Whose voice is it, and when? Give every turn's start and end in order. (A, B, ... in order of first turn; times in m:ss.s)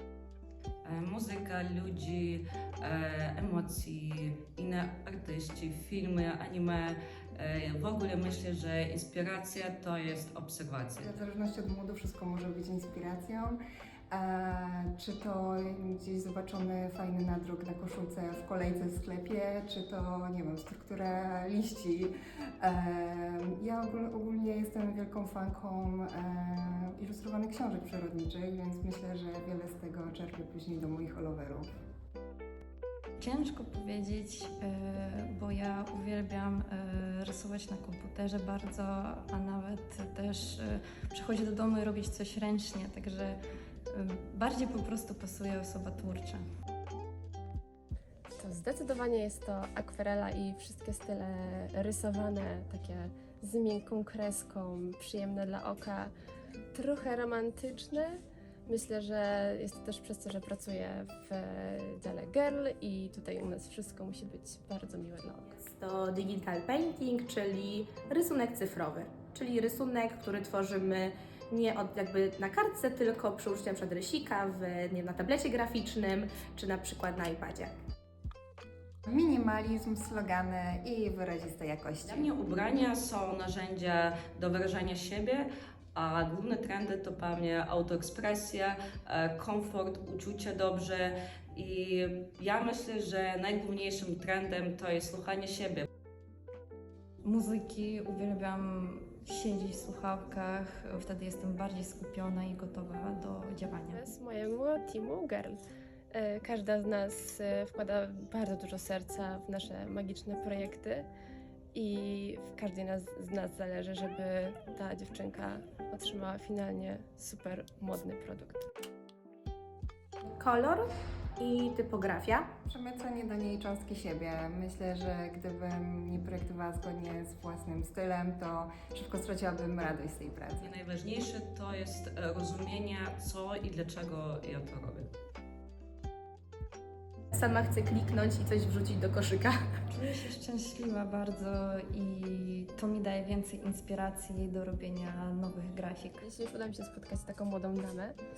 0:00.8-0:11.2 A
0:11.0-0:31.7 B
0:33.2-0:43.4 C
0:43.9-0:46.4 C
0:48.4-0:56.1 D
0:56.7-1:05.5 D
1:05.5-1:17.7 E
1:19.1-1:22.3 B
1:22.1-1:35.8 A
1:37.2-1:44.0 C
1:43.9-1:45.6 D
1:46.1-1:51.1 D
1:51.7-1:58.7 D
2:00.4-2:02.5 E
2:02.6-2:10.7 B
2:10.6-2:15.1 A
2:17.3-2:19.6 E
2:19.9-2:26.2 C
2:26.2-2:28.2 D